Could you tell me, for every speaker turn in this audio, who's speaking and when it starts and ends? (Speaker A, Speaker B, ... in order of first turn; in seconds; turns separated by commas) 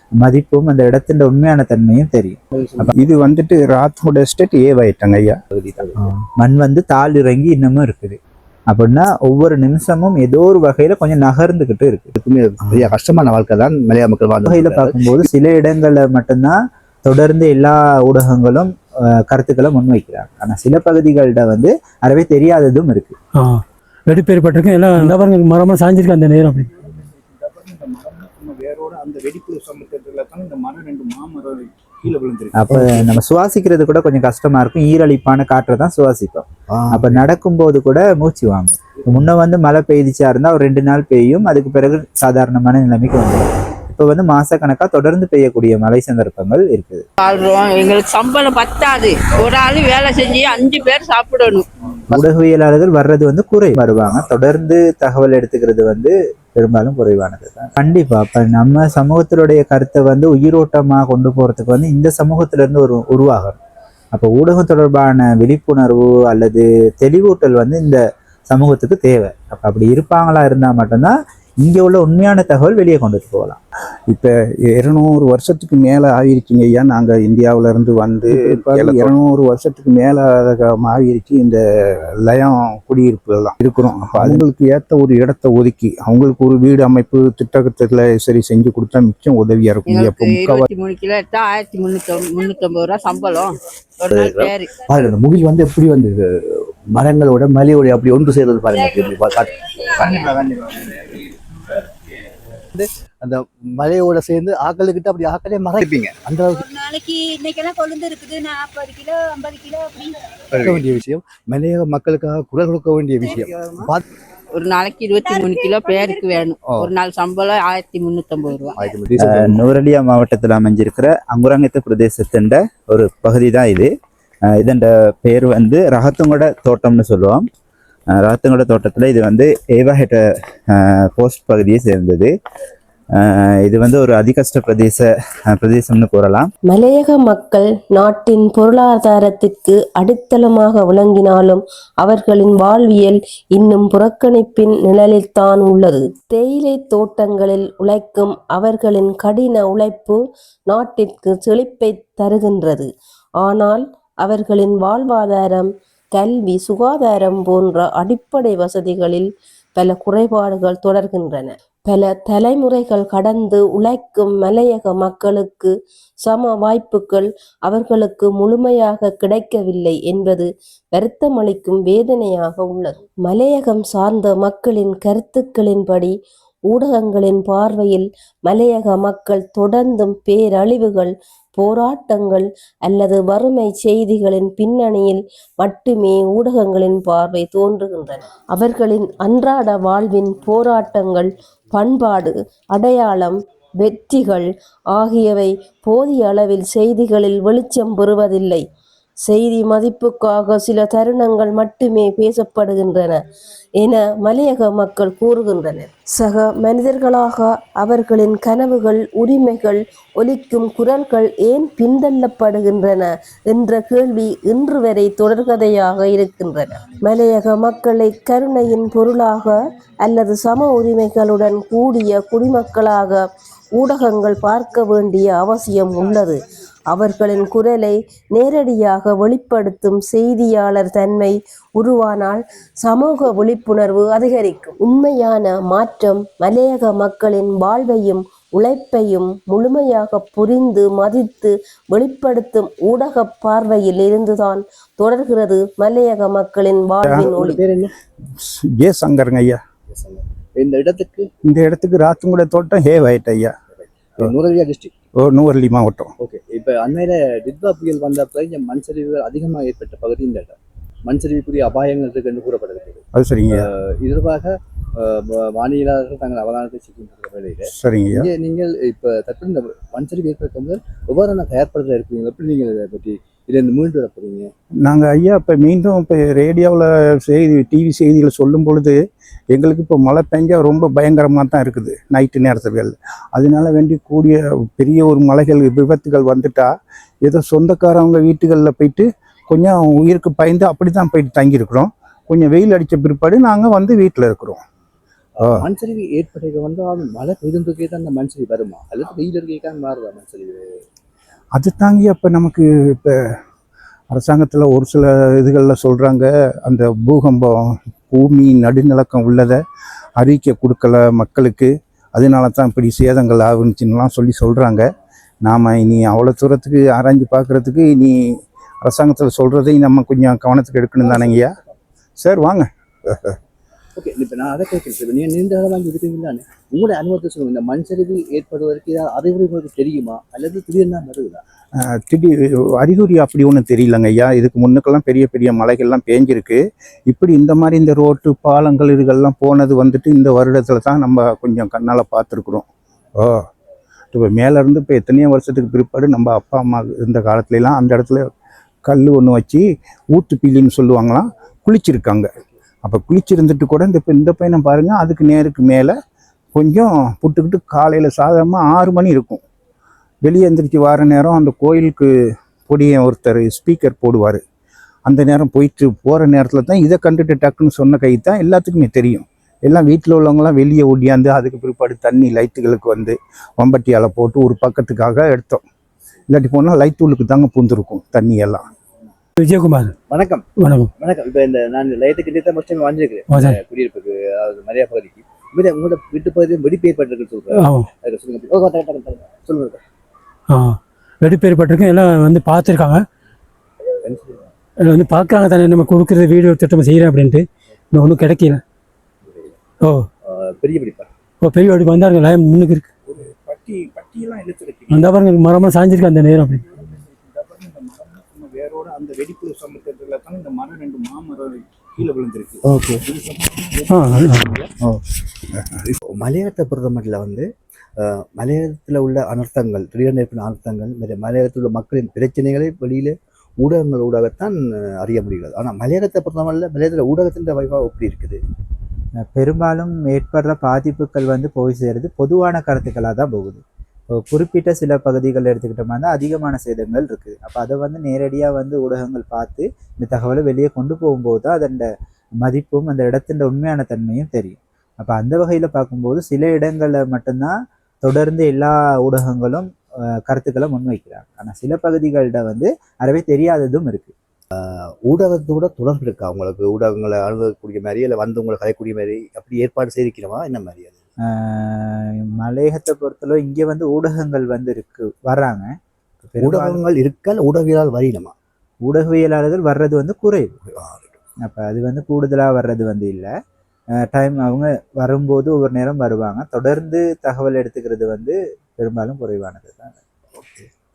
Speaker A: 0.2-2.9, Speaker B: 2.5-2.9, Speaker C: 2.9-5.4, Speaker B: 5.5-6.0, Speaker A: 6.0-8.2, Speaker A: 8.7-12.1, Speaker B: 12.2-15.2, Speaker A: 14.4-23.1, Speaker D: 23.4-26.7, Speaker C: 26.9-32.6, Speaker A: 32.5-47.0, Speaker B: 36.7-37.2, Speaker E: 47.2-51.6, Speaker A: 52.1-63.6, Speaker A: 64.1-73.6, Speaker C: 74.1-81.6, Speaker A: 78.7-79.1, Speaker C: 82.2-90.7, Speaker A: 84.1-84.4, Speaker E: 89.9-94.7, Speaker B: 94.1-101.1, Speaker B: 102.7-106.7, Speaker F: 106.5-110.2, Speaker B: 110.5-114.0, Speaker E: 113.4-113.7, Speaker E: 114.5-118.8, Speaker F: 115.2-116.4, Speaker B: 116.7-116.9, Speaker B: 118.8-119.6, Speaker A: 119.2-123.9, Speaker A: 124.5-127.4, Speaker A: 128.2-130.2, Speaker A: 130.7-132.3, Speaker A: 133.2-136.5, Speaker G: 136.7-165.7, Speaker G: 166.2-176.1, Speaker G: 176.7-198.6, Speaker G: 199.2-203.2, Speaker G: 203.8-223.2, Speaker G: 223.8-247.6, Speaker C: 247.0-247.3, Speaker B: 247.2-247.9, Speaker C: 248.3-249.6, Speaker B: 249.9-251.3, Speaker C: 251.4-253.5, Speaker B: 253.8-254.9, Speaker C: 255.2-256.1, Speaker B: 256.2-260.5, Speaker B: 261.1-274.5, Speaker C: 263.1-263.7, Speaker C: 267.8-268.3, Speaker C: 274.8-278.9, Speaker C: 279.5-286.7, Speaker C: 287.2-294.6, Speaker B: 295.4-300.7, Speaker C: 301.6-303.1, Speaker C: 304.1-307.5, Speaker C: 308.1-309.6, Speaker C: 310.2-314.8, Speaker C: 315.4-318.1, Speaker C: 318.8-321.6, Speaker B: 321.0-321.6, Speaker C: 322.2-323.4, Speaker B: 323.9-331.4, Speaker C: 331.8-343.4, Speaker C: 344.1-348.3, Speaker C: 348.8-352.3, Speaker C: 352.8-355.9, Speaker C: 356.5-359.4, Speaker C: 360.2-362.1, Speaker C: 362.7-364.4, Speaker C: 365.1-375.6, Speaker C: 376.3-378.6, Speaker D: 379.4-379.9, Speaker B: 380.1-380.4, Speaker D: 380.6-380.9, Speaker B: 381.0-389.8, Speaker D: 383.3-383.6, Speaker D: 387.5-387.9, Speaker D: 390.5-393.0, Speaker B: 394.0-394.4, Speaker D: 394.8-398.6, Speaker B: 399.2-399.5, Speaker D: 399.8-400.1, Speaker B: 400.2-401.1, Speaker D: 401.4-402.9, Speaker C: 403.1-405.1, Speaker D: 404.9-406.6, Speaker C: 406.8-413.9, Speaker B: 412.6-413.0, Speaker D: 413.9-414.5, Speaker B: 414.1-414.7, Speaker B: 415.9-428.4, Speaker A: 429.3-433.6, Speaker A: 434.1-441.9, Speaker A: 442.4-449.7, Speaker A: 450.2-454.1, Speaker B: 454.5-461.0, Speaker A: 461.3-465.7, Speaker A: 466.3-466.8, Speaker B: 466.4-468.3, Speaker A: 468.8-470.6, Speaker B: 470.7-471.1, Speaker A: 471.4-473.3, Speaker A: 474.0-479.9, Speaker B: 480.4-480.7